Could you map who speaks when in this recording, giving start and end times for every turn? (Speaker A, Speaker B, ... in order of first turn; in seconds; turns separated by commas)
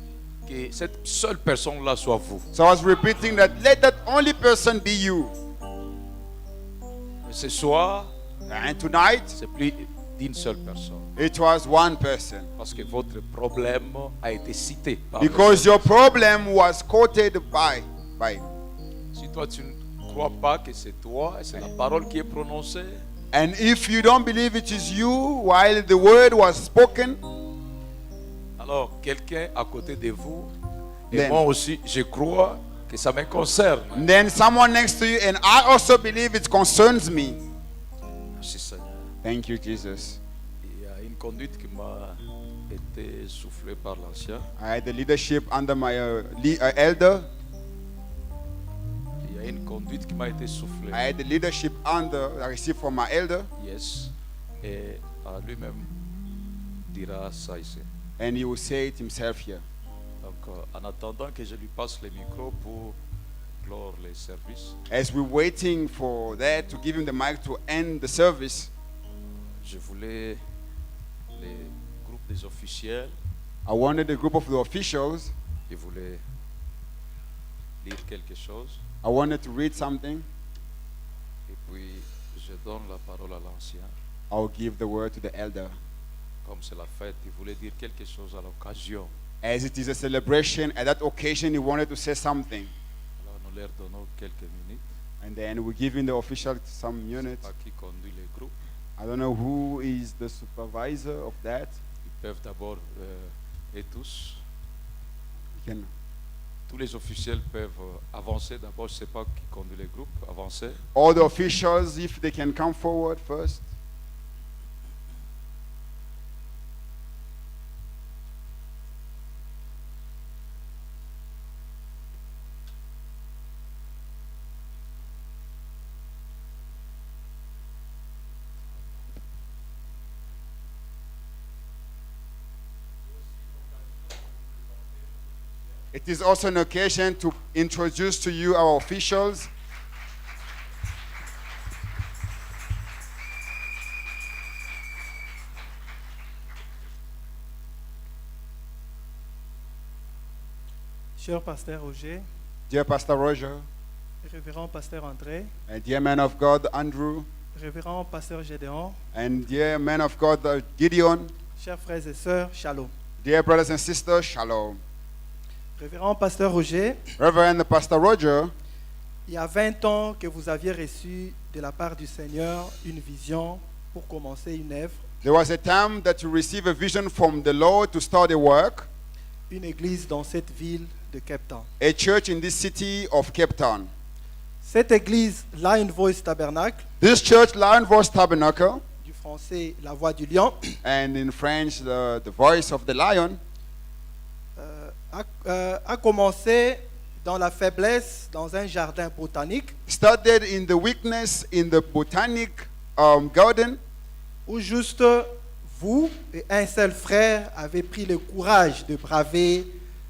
Speaker A: 0.4-2.5, Speaker B: 2.5-5.3, Speaker A: 7.2-8.1, Speaker B: 8.5-9.4, Speaker A: 9.3-11.1, Speaker B: 11.2-12.5, Speaker A: 12.6-15.9, Speaker B: 15.2-18.5, Speaker A: 19.1-23.0, Speaker B: 23.3-27.2, Speaker A: 28.6-30.5, Speaker A: 31.1-34.1, Speaker B: 31.1-31.4, Speaker B: 33.9-37.4, Speaker A: 38.4-39.1, Speaker B: 39.2-40.2, Speaker A: 40.6-44.5, Speaker B: 44.6-47.3, Speaker A: 49.2-51.0, Speaker B: 50.9-53.5, Speaker A: 53.6-55.9, Speaker A: 56.9-57.9, Speaker B: 58.2-59.6, Speaker A: 60.2-63.0, Speaker A: 63.6-64.8, Speaker B: 64.9-68.7, Speaker A: 69.6-70.4, Speaker A: 71.3-73.1, Speaker B: 73.7-75.3, Speaker A: 75.7-76.2, Speaker A: 77.8-78.8, Speaker B: 79.0-80.2, Speaker A: 81.5-83.9, Speaker B: 84.3-85.8, Speaker A: 86.4-89.1, Speaker B: 89.4-92.7, Speaker A: 93.2-94.8, Speaker B: 95.2-97.5, Speaker A: 97.2-98.5, Speaker B: 99.0-101.8, Speaker A: 102.0-104.4, Speaker B: 105.6-105.9, Speaker A: 106.7-110.8, Speaker B: 110.9-113.6, Speaker B: 135.9-139.5, Speaker C: 151.2-152.2, Speaker B: 152.7-153.7, Speaker C: 154.2-155.5, Speaker B: 155.7-157.3, Speaker C: 157.5-159.0, Speaker B: 159.1-161.3, Speaker C: 161.6-162.9, Speaker B: 163.2-164.8, Speaker C: 165.8-167.0, Speaker B: 167.2-168.5, Speaker C: 169.3-175.0, Speaker B: 175.2-178.9, Speaker C: 179.5-181.7, Speaker B: 181.8-183.9, Speaker C: 184.6-186.8, Speaker B: 187.0-188.8, Speaker C: 189.0-190.8, Speaker B: 190.8-193.4, Speaker C: 194.6-199.7, Speaker B: 199.9-203.8, Speaker C: 204.5-209.7